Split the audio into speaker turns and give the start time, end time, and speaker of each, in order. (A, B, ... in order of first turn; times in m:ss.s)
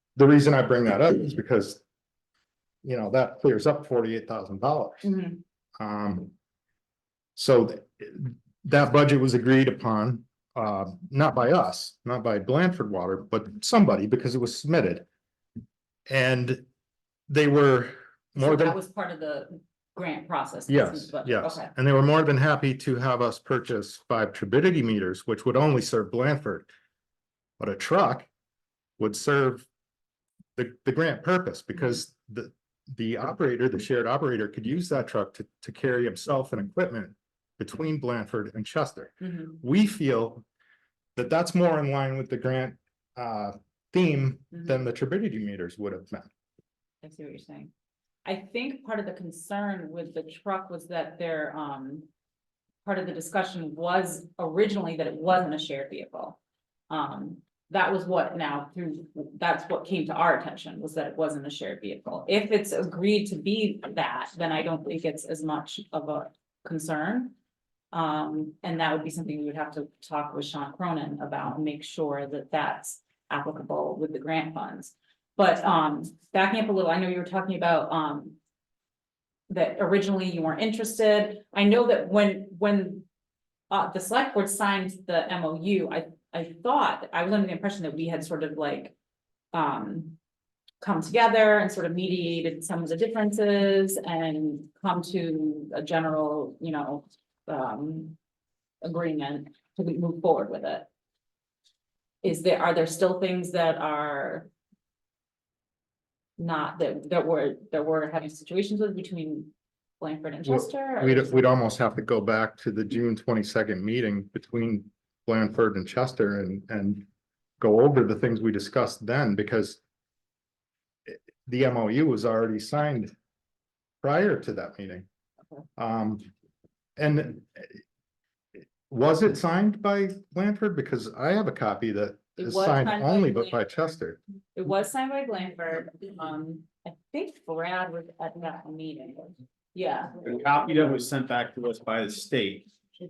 0:00.2-0:01.8 A
0:02.8-0:05.1 A
0:05.0-0:05.4 B
0:05.8-0:06.3 A
0:07.4-0:15.0 A
0:16.1-0:16.6 A
0:17.3-0:18.8 A
0:18.4-0:21.7 B
0:20.7-0:26.7 A
0:27.6-0:28.3 A
0:29.0-0:29.7 A
0:30.6-0:40.4 A
0:39.2-0:39.5 B
0:41.2-0:46.3 A
0:44.5-0:44.8 B
0:47.0-0:47.7 B
0:48.2-0:52.1 B
0:52.8-0:56.4 B
0:56.9-1:07.3 B
1:07.9-1:18.4 B
1:19.5-1:23.0 B
1:23.7-1:28.9 B
1:29.5-1:30.2 B
1:30.8-1:38.2 B
1:38.8-1:40.9 B
1:42.2-1:44.5 B
1:46.4-1:51.5 B
1:50.4-1:57.0 A
1:57.6-1:59.8 A
2:01.1-2:03.1 A
2:04.0-2:05.0 A
2:05.8-2:06.2 A
2:07.0-2:07.8 A
2:08.9-2:14.2 A
2:12.4-2:13.6 B
2:14.6-2:20.2 B
2:20.2-2:22.7 C